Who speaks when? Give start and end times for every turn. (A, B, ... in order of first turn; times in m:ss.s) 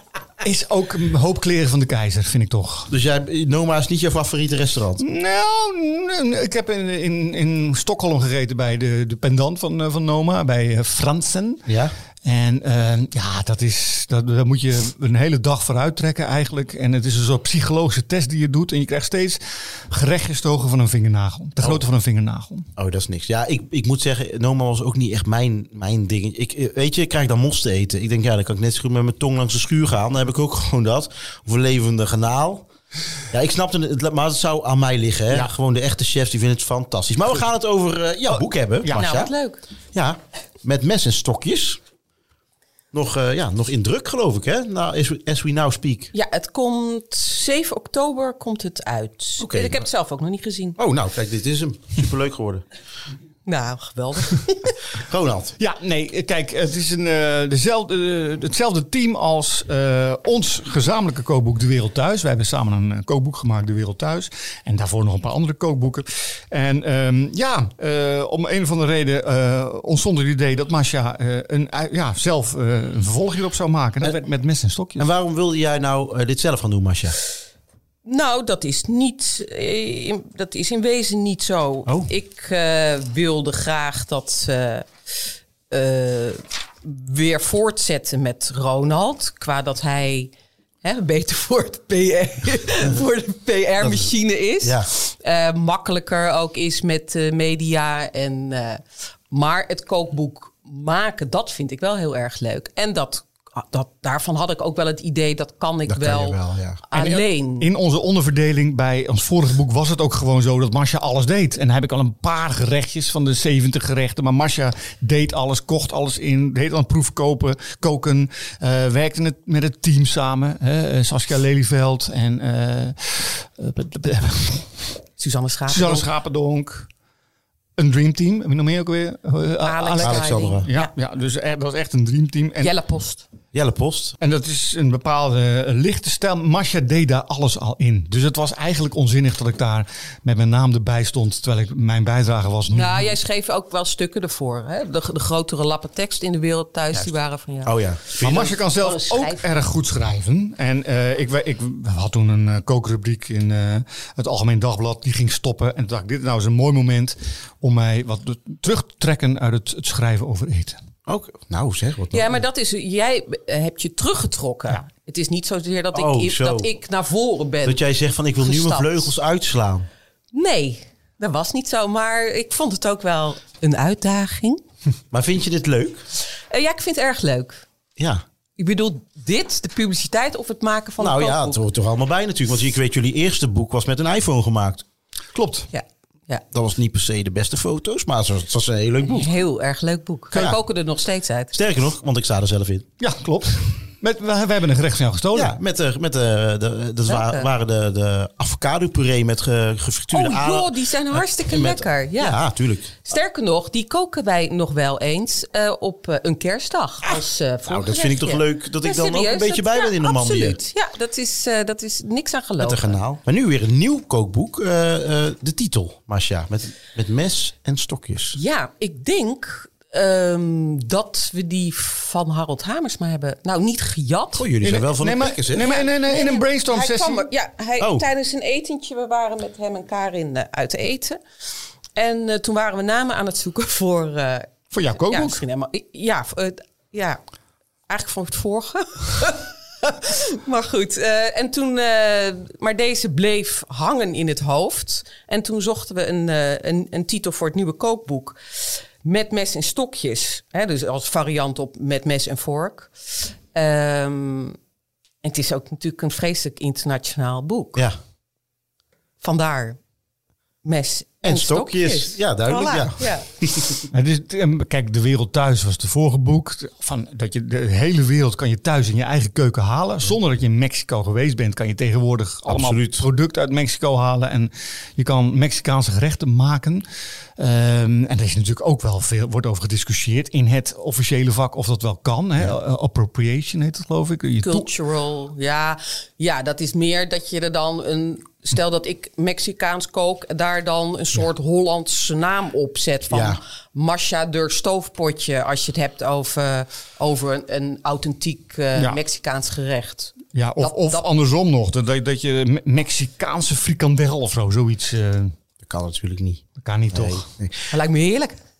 0:00.4-0:02.9 A
0:02.9-0:05.0 B
0:05.0-0:11.6 A
0:11.6-0:11.9 B
0:12.2-0:22.7 A
0:22.8-0:32.6 B
0:33.3-0:39.3 B
0:38.4-0:39.0 A
0:39.0-0:39.6 C
0:39.9-0:41.8 B
0:42.9-0:46.1 B
0:46.1-0:50.8 C
0:49.4-0:49.8 B
0:50.8-0:52.6 B
0:53.4-0:54.8 C
0:54.9-0:55.6 B
0:55.6-1:15.0 A
1:15.0-1:17.2 B
1:18.0-1:24.9 C
1:21.8-1:22.1 B
1:25.7-1:30.3 C
1:30.8-1:47.7 C
1:33.8-1:34.9 B
1:45.9-1:46.8 B
1:46.9-2:04.7 A
2:05.2-2:06.0 C
2:05.7-2:06.9 A
2:07.8-2:12.7 A
2:09.6-2:10.9 C
2:10.0-2:10.7 B
2:12.6-2:13.2 C
2:13.5-2:14.2 B
2:14.2-2:23.1 A
2:22.7-2:29.6 C
2:27.6-2:28.6 B
2:28.2-2:40.8 A
2:41.1-2:42.4 B
2:42.1-2:47.8 C
2:45.9-2:46.7 B
2:47.6-2:49.9 B
2:48.4-2:49.1 C
2:50.3-2:54.6 C
2:55.1-2:56.0 B
2:56.5-2:57.6 C
2:58.0-2:58.2 B
2:58.6-3:01.6 C
3:01.0-3:04.8 B
3:05.3-3:05.7 A
3:05.7-3:06.4 C
3:06.5-3:09.3 B
3:09.0-3:11.6 C
3:10.3-3:10.6 B
3:11.5-3:12.9 B
3:13.0-3:15.5 A
3:15.3-3:22.9 B
3:17.1-3:17.5 C
3:20.1-3:22.4 C
3:23.0-3:33.0 C
3:27.7-3:30.6 B
3:32.6-3:38.4 B
3:38.3-3:44.5 C
3:44.3-3:45.8 B
3:44.6-3:47.2 A
3:45.6-3:51.2 C
3:47.8-3:48.0 B
3:52.0-3:57.2 C
3:54.7-3:55.4 A
3:57.9-4:14.6 C
4:15.2-4:17.8 C
4:19.2-4:19.8 C
4:20.6-4:23.2 C
4:21.2-4:23.9 B
4:23.9-4:36.8 A
4:32.4-4:33.1 B
4:37.4-4:44.7 A
4:44.4-5:01.0 C
4:53.1-4:53.4 B
5:00.3-5:05.3 A
5:05.6-5:07.7 B
5:06.6-5:07.2 A
5:07.7-5:08.4 C